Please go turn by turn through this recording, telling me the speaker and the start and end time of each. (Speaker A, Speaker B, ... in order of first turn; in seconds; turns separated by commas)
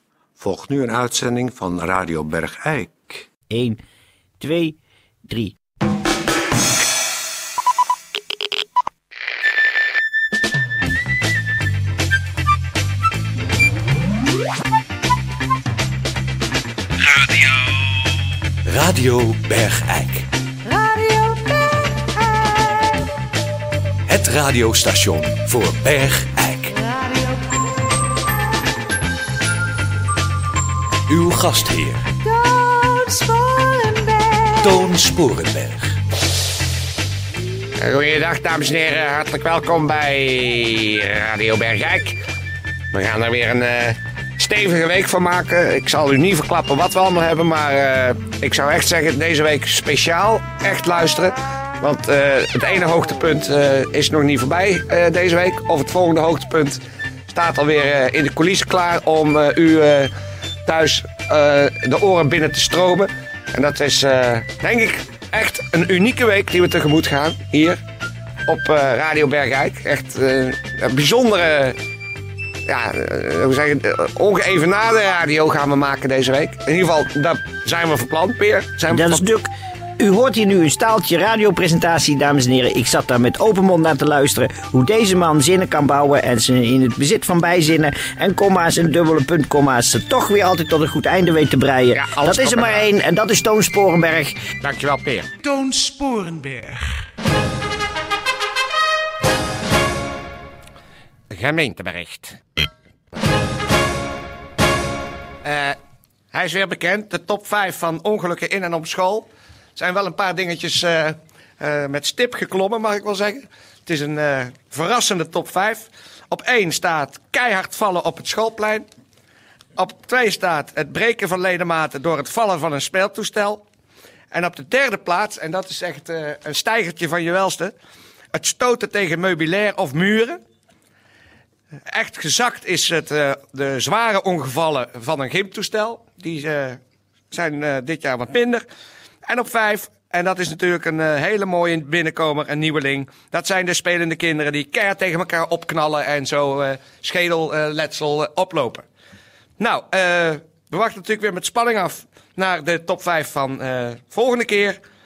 Speaker A: 0.4-3.3, Speaker B: 3.5-3.8, Speaker B: 4.4-5.6, Speaker C: 17.1-17.4, Speaker C: 18.7-20.3, Speaker D: 20.7-22.7, Speaker C: 24.1-26.8, Speaker D: 26.9-27.2, Speaker C: 31.1-32.1, Speaker D: 32.3-34.7, Speaker C: 34.6-36.0, Speaker E: 37.8-42.2, Speaker E: 42.9-60.1, Speaker E: 60.7-67.8, Speaker E: 68.5-71.8, Speaker E: 72.7-79.2, Speaker B: 78.9-94.4, Speaker E: 92.0-92.9, Speaker E: 94.6-95.3, Speaker C: 95.6-96.6, Speaker E: 101.3-102.4, Speaker E: 105.4-105.8, Speaker E: 106.3-118.9, Speaker E: 119.8-123.7, Speaker E: 124.3-127.7, Speaker E: 128.3-130.4, Speaker E: 131.9-136.8, Speaker E: 137.3-138.7, Speaker E: 139.3-148.9, Speaker E: 149.6-154.8